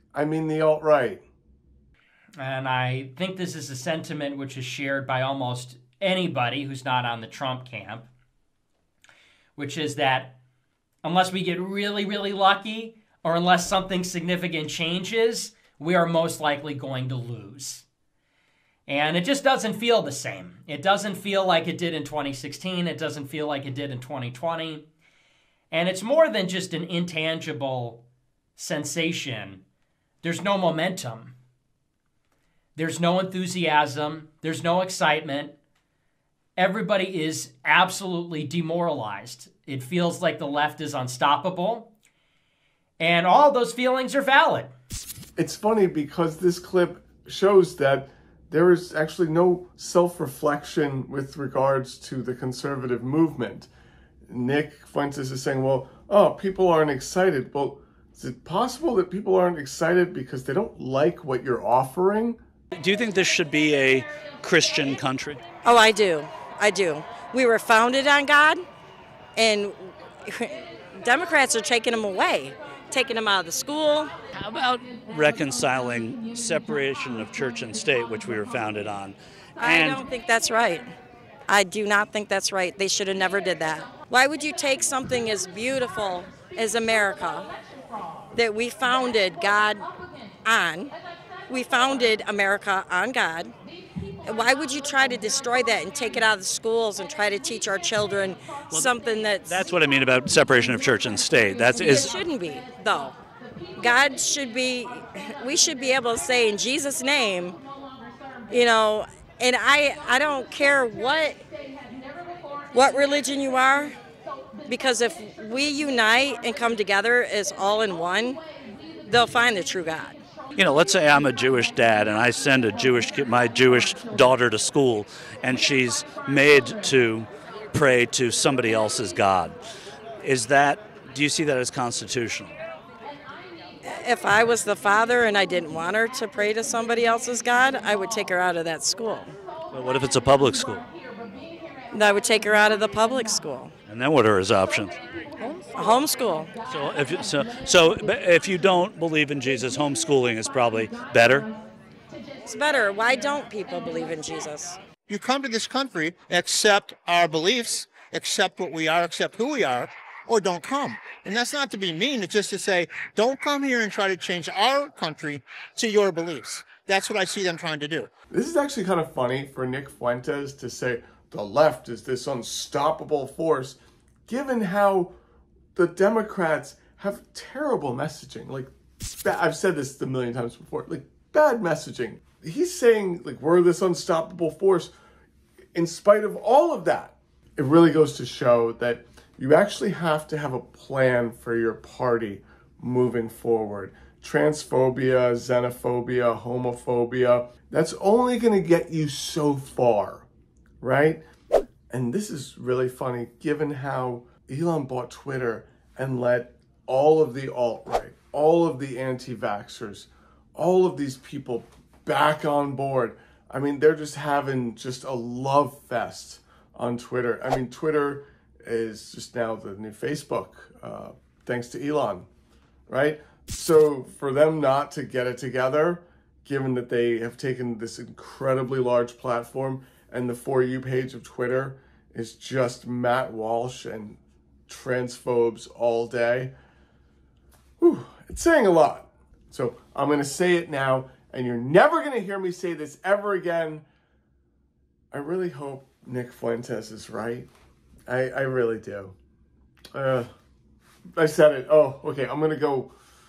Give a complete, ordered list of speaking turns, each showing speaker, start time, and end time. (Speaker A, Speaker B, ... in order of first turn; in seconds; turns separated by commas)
Speaker A: 0.1-1.2, Speaker B: 2.4-8.1, Speaker B: 9.6-10.4, Speaker B: 11.0-17.8, Speaker B: 18.9-24.9, Speaker B: 25.7-28.0, Speaker B: 28.6-29.6, Speaker B: 30.2-31.3, Speaker B: 32.8-35.5, Speaker B: 36.6-41.9, Speaker B: 43.0-44.7, Speaker A: 45.4-53.7, Speaker A: 54.3-62.4, Speaker C: 62.7-65.4, Speaker D: 65.6-68.6, Speaker D: 69.4-74.1, Speaker C: 74.4-80.0, Speaker D: 79.6-80.8, Speaker D: 81.5-87.5, Speaker D: 88.3-89.9, Speaker D: 90.4-90.9, Speaker D: 91.5-93.5, Speaker D: 94.2-99.6, Speaker C: 99.5-102.2, Speaker D: 101.8-103.2, Speaker D: 103.8-107.6, Speaker D: 108.5-111.4, Speaker D: 112.7-113.9, Speaker D: 114.7-118.4, Speaker D: 119.0-120.2, Speaker C: 120.5-129.6, Speaker C: 130.2-132.5, Speaker D: 133.8-139.3, Speaker C: 139.7-140.8, Speaker D: 141.9-143.7, Speaker C: 143.9-145.0, Speaker D: 145.7-146.5, Speaker C: 146.7-151.5, Speaker D: 152.4-154.8, Speaker E: 155.0-168.1, Speaker A: 168.3-175.1, Speaker A: 175.8-184.9, Speaker A: 185.8-200.3, Speaker A: 200.8-201.2, Speaker A: 201.9-222.3, Speaker A: 222.9-236.5, Speaker A: 237.8-243.8, Speaker A: 245.1-247.5, Speaker A: 248.1-249.2, Speaker A: 249.9-250.3, Speaker A: 251.2-252.9